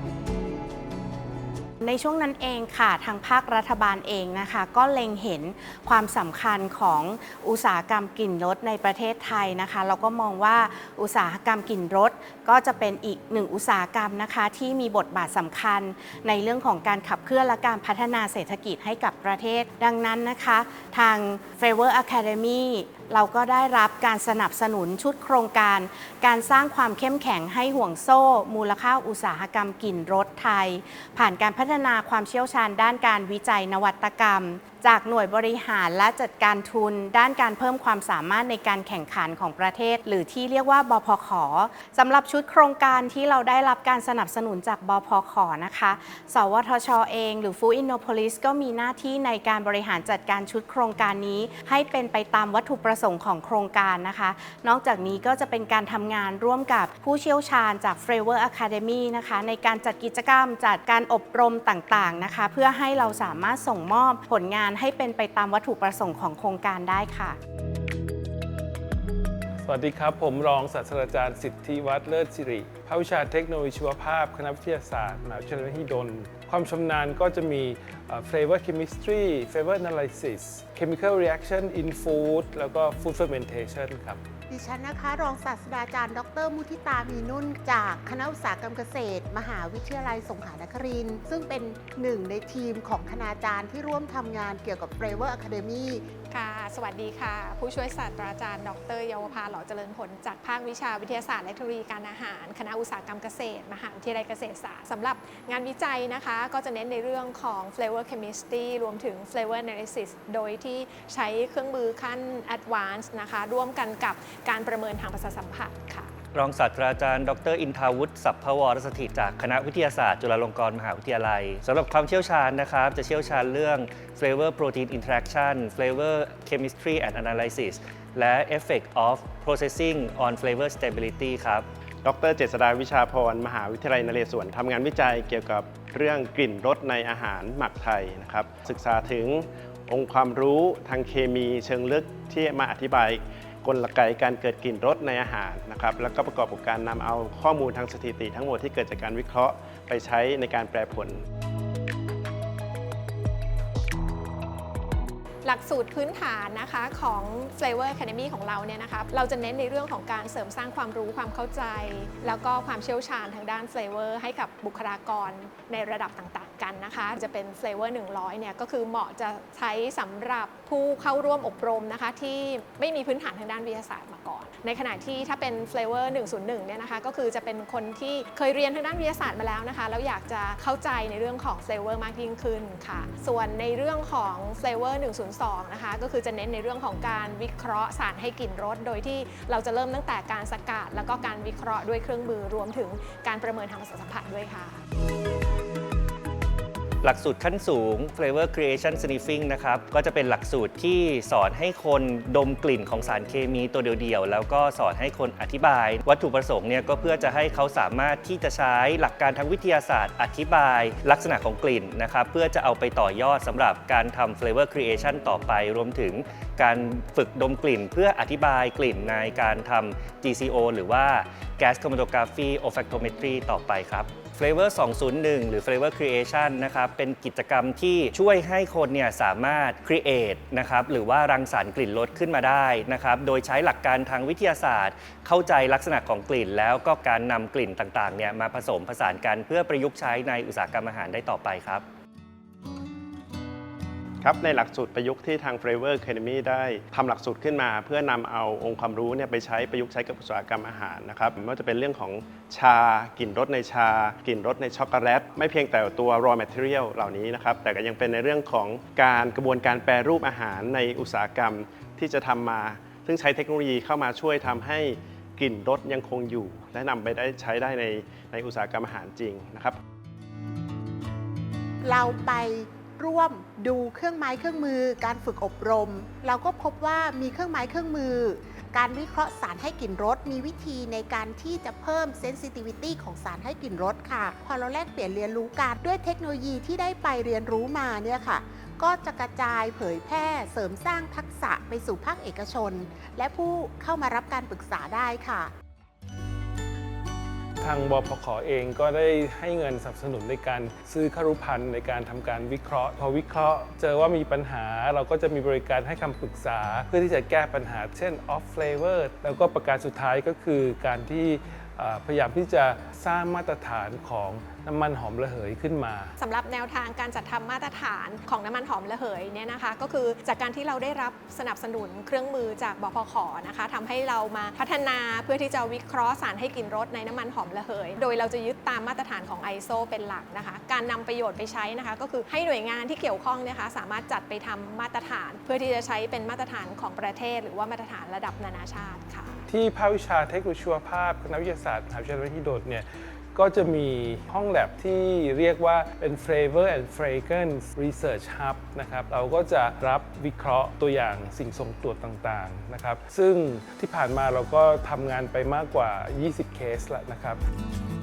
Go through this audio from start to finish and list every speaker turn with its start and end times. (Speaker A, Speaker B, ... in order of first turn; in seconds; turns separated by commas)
Speaker A: 1.8-67.4, Speaker B: 69.6-84.2, Speaker C: 84.5-96.0, Speaker D: 96.3-116.1, Speaker E: 116.3-131.7, Speaker F: 132.0-151.2, Speaker D: 155.4-194.8, Speaker E: 197.0-241.8, Speaker F: 244.2-269.8, Speaker C: 271.8-295.5, Speaker B: 297.6-316.1, Speaker D: 316.2-339.4, Speaker B: 339.5-357.4